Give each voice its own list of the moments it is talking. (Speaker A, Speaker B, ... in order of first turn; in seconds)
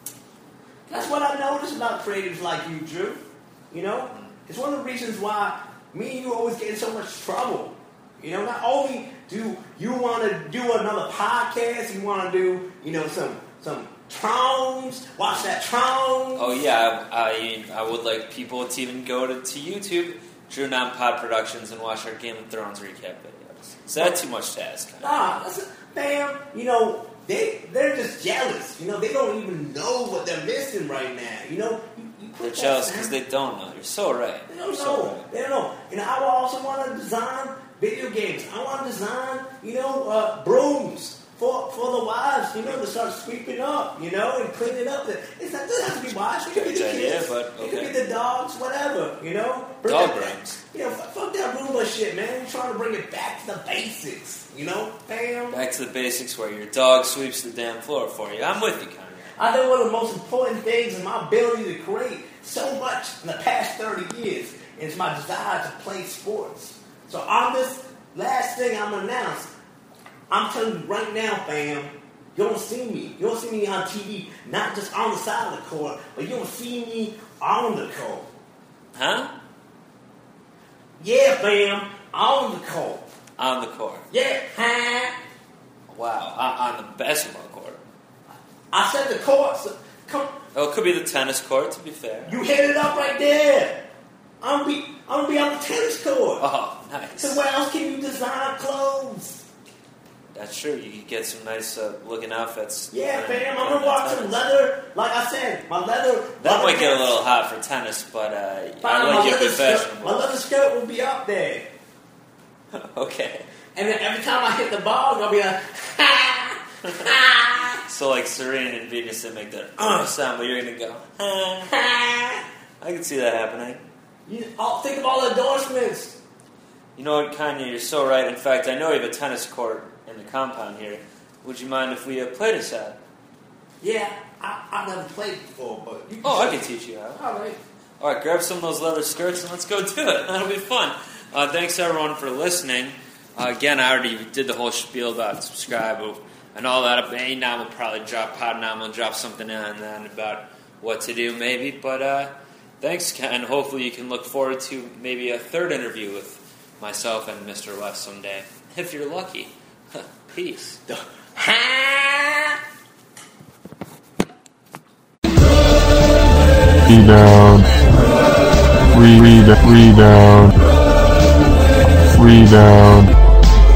Speaker A: 0.9-16.6, 25.0-33.2, 34.5-55.6, 59.4-69.5, 70.3-78.3, 81.0-83.0, 84.1-85.2, 88.7-90.4, 92.3-93.8, 94.4-96.4, 97.2-99.5, 102.9-107.2, 108.8-111.7, 113.8-117.8, 119.8-120.1, 121.7-122.4, 124.3-126.2, 133.8-137.6, 160.9-162.6
Speaker B: 16.4-25.4, 32.4-35.3, 46.5-48.0, 49.8-50.6, 55.5-59.4, 79.0-79.3, 83.4-84.1, 85.9-87.8, 90.5-92.4, 96.4-97.4, 100.3-104.4, 106.4-110.3, 112.7-113.5, 116.8-117.1, 117.8-121.7, 122.8-123.8, 127.0-133.0, 136.2-137.3, 138.0-160.8
Speaker C: 166.9-167.7, 168.9-170.6, 172.2-173.1